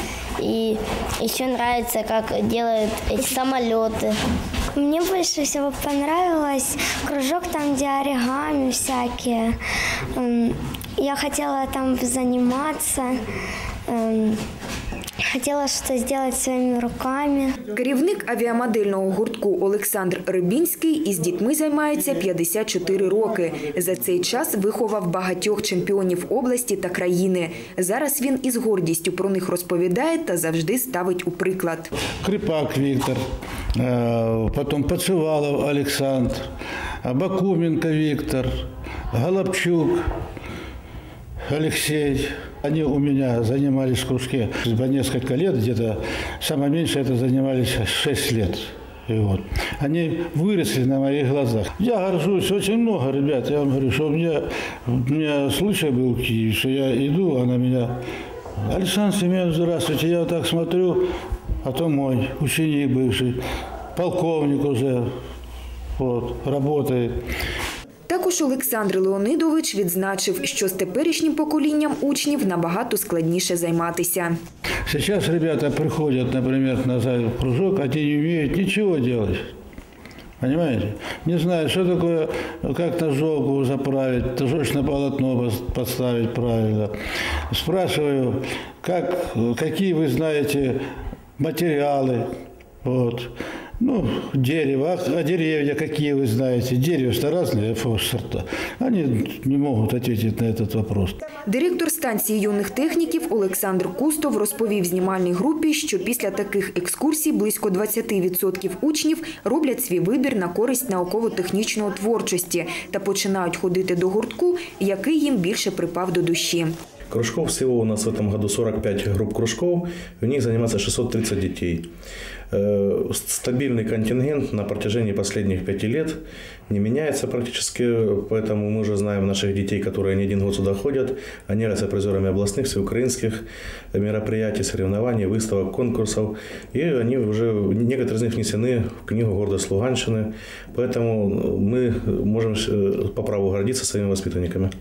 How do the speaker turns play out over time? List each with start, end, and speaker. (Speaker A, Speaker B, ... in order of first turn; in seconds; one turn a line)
Speaker A: 0.4-4.1
Speaker B: 4.8-6.6
Speaker A: 6.6-7.1
Speaker B: 7.1-9.3
Speaker B: 10.2-10.5
Speaker A: 11.0-12.0
Speaker B: 11.0-13.1
Speaker B: 15.3-17.4
Speaker C: 17.7-31.9
Speaker D: 32.2-33.2
Speaker D: 33.8-36.5
Speaker D: 37.0-38.5
Speaker D: 39.1-40.0
Speaker D: 41.5-58.0
Speaker D: 58.7-61.1
Speaker D: 61.6-63.4
Speaker D: 63.9-65.1
Speaker D: 66.0-67.2
Speaker C: 68.1-74.4
Speaker D: 74.9-79.5
Speaker D: 80.4-86.9
Speaker D: 87.5-90.8
Speaker D: 91.4-92.3
Speaker D: 92.8-101.2
Speaker C: 101.4-116.7
Speaker E: 117.1-121.9
Speaker E: 122.5-144.7